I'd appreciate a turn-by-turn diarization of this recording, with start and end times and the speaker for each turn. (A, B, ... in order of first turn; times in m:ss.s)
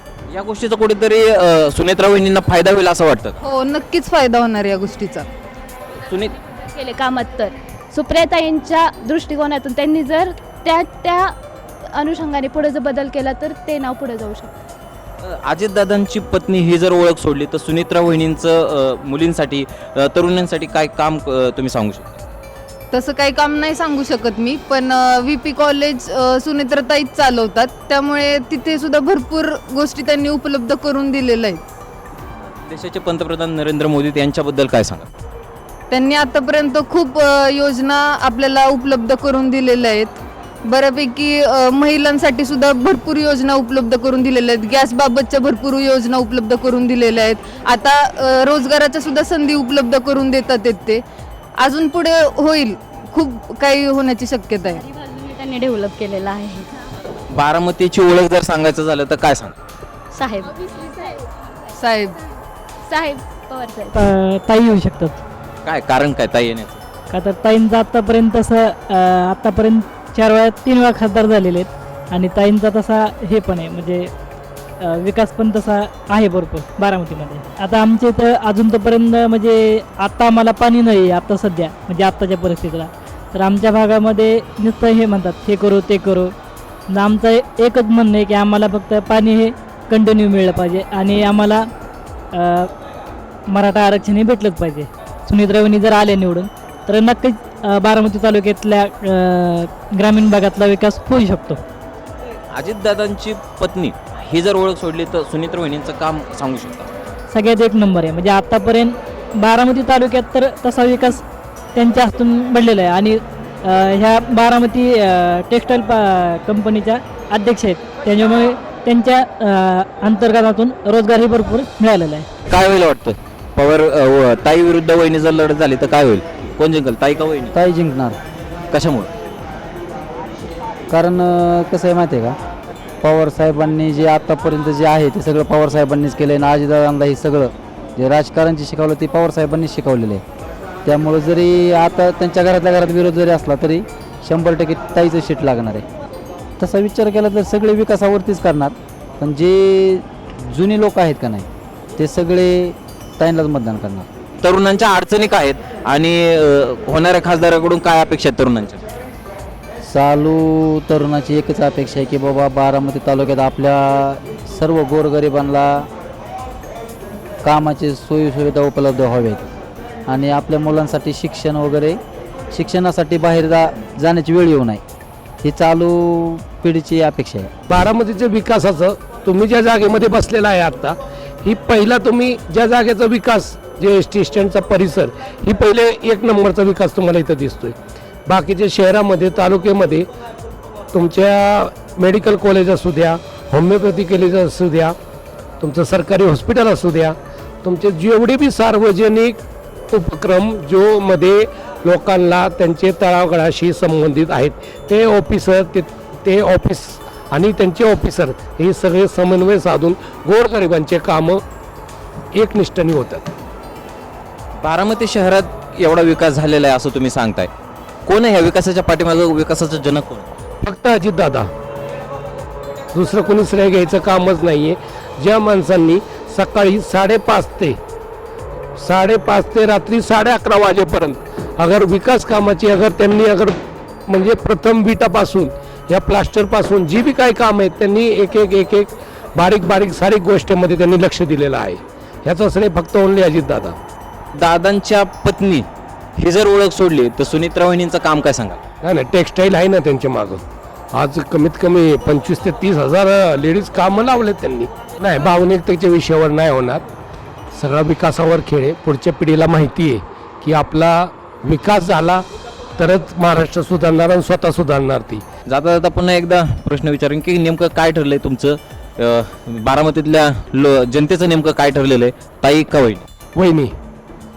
0:00.3-0:03.4 A
0:03.4-0:05.3 B
0:06.1-0:06.4 A
0:06.7-0:11.4 C
0:12.0-0:14.6 C
0:15.2-0:22.1 A
0:22.9-0:31.6 B
0:32.7-0:35.1 A
0:35.9-0:51.0 B
0:51.6-0:54.8 B
0:54.9-0:56.7 D
0:57.3-0:59.6 A
1:00.1-1:00.5 D
1:00.9-1:01.2 C
1:01.8-1:02.2 B
1:02.9-1:04.0 C
1:04.0-1:05.2 E
1:05.6-1:06.8 A
1:07.1-1:14.1 E
1:14.8-1:26.3 E
1:26.9-1:31.7 E
1:32.3-1:32.7 E
1:33.5-1:41.6 E
1:42.5-1:46.9 A
1:47.3-1:51.2 E
1:51.8-2:02.3 E
2:02.5-2:07.5 A
2:07.5-2:08.2 F
2:08.7-2:09.1 A
2:10.9-2:12.4 F
2:13.0-2:20.2 F
2:20.9-2:25.8 F
2:26.6-2:34.1 F
2:34.4-2:38.8 A
2:39.8-2:45.9 F
2:47.4-2:49.5 F
2:50.1-2:52.0 F
2:52.5-2:54.8 F
2:55.4-2:57.5 F
2:57.7-3:07.8 G
3:08.3-3:10.1 G
3:10.9-3:15.0 G
3:15.6-3:31.4 G
3:32.3-3:33.3 G
3:34.6-3:37.5 A
3:38.1-3:40.3 A
3:40.6-3:41.5 G
3:42.9-3:47.8 G
3:48.8-3:53.6 G
3:54.1-4:03.8 G
4:04.4-4:05.6 A
4:06.2-4:08.6 A
4:08.8-4:10.4 G
4:10.9-4:16.8 G
4:17.5-4:22.2 G
4:22.8-4:25.2 G
4:25.5-4:33.0 A
4:33.4-4:33.7 G